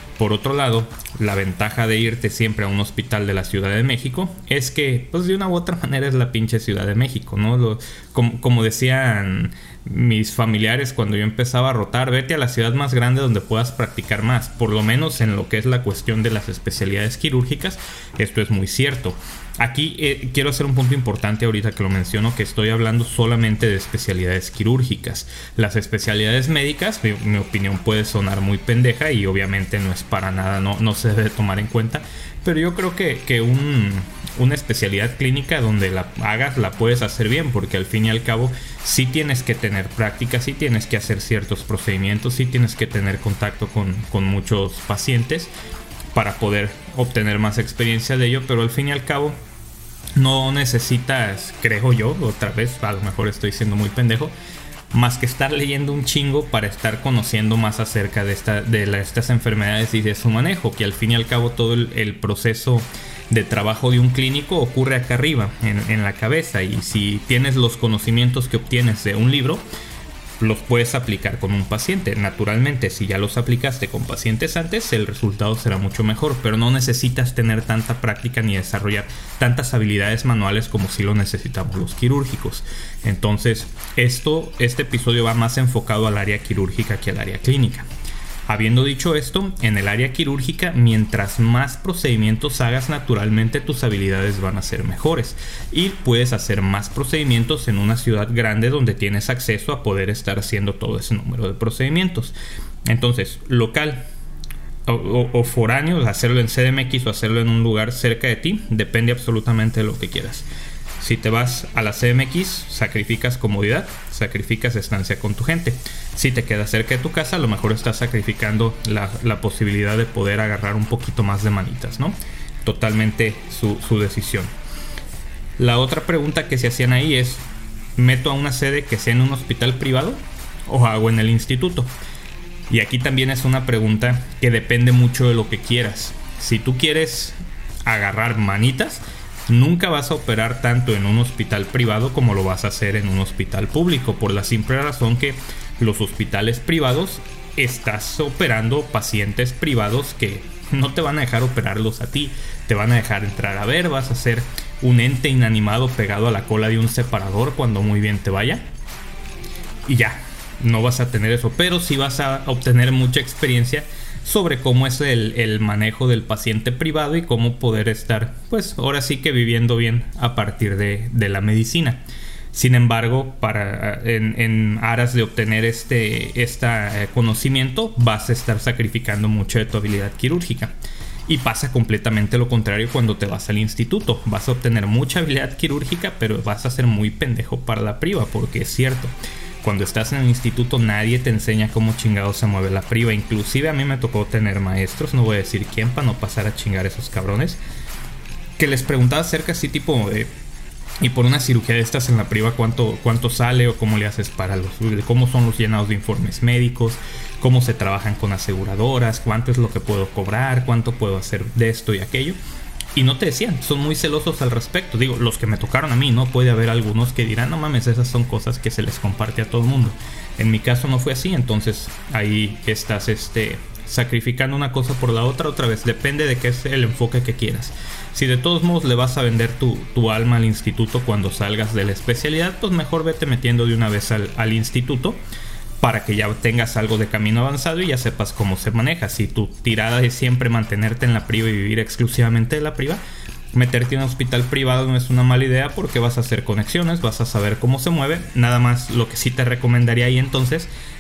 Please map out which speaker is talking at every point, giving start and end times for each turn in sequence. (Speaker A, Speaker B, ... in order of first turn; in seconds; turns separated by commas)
Speaker A: 0.2-45.5, Speaker A: 46.1-49.4, Speaker A: 50.1-54.3, Speaker A: 54.9-69.6, Speaker A: 70.4-87.9, Speaker A: 88.5-104.1, Speaker A: 104.9-110.5, Speaker A: 111.0-124.5, Speaker A: 125.6-127.4, Speaker A: 128.0-131.9, Speaker A: 132.7-158.7, Speaker A: 159.9-180.8, Speaker A: 181.3-197.6, Speaker A: 198.6-200.3, Speaker A: 201.0-212.4, Speaker A: 212.9-235.2, Speaker A: 235.8-243.0, Speaker A: 243.5-250.7